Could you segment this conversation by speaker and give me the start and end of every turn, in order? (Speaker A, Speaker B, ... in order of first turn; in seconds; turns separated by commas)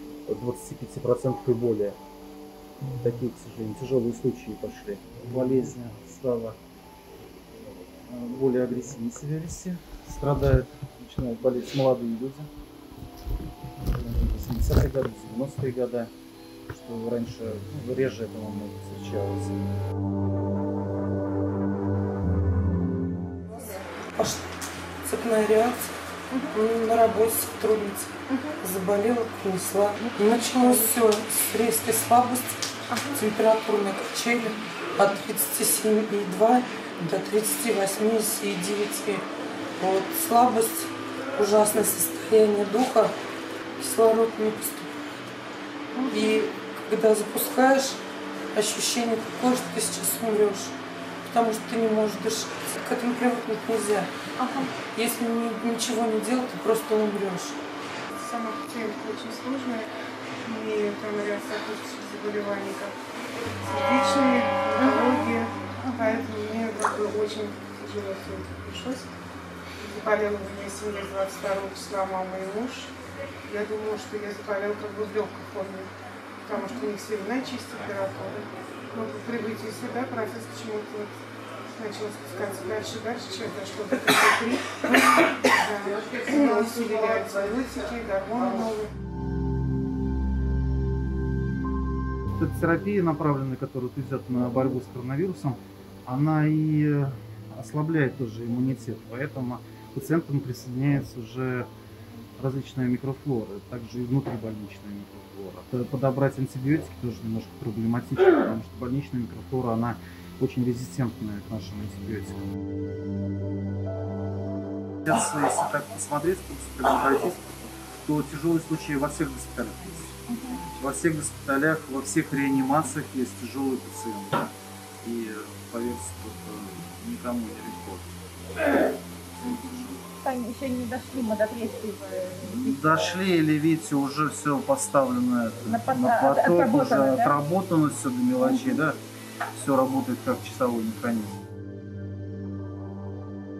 Speaker A: 0.3-2.0, Speaker A: 3.0-6.6, Speaker A: 8.1-12.5, Speaker A: 13.8-16.1, Speaker A: 16.7-19.7, Speaker B: 23.9-24.4, Speaker B: 25.0-25.9, Speaker C: 26.3-26.6, Speaker B: 26.5-43.2, Speaker C: 28.3-28.6, Speaker C: 30.2-30.9, Speaker C: 32.9-33.2, Speaker B: 43.8-45.0, Speaker C: 45.9-46.4, Speaker B: 46.1-48.0, Speaker B: 48.5-54.1, Speaker C: 54.4-54.7, Speaker B: 54.8-57.6, Speaker D: 58.1-59.9, Speaker D: 60.4-62.9, Speaker D: 63.6-69.1, Speaker D: 69.8-72.9, Speaker D: 73.5-75.9, Speaker D: 76.4-81.1, Speaker D: 81.7-88.9, Speaker A: 85.9-87.5, Speaker A: 88.4-88.6, Speaker A: 92.4-101.7, Speaker A: 102.4-112.5, Speaker A: 115.0-117.5, Speaker A: 118.0-128.1, Speaker C: 120.3-120.6, Speaker A: 129.4-130.0, Speaker C: 130.2-133.2, Speaker A: 132.4-139.0, Speaker C: 135.7-137.3, Speaker A: 139.5-141.3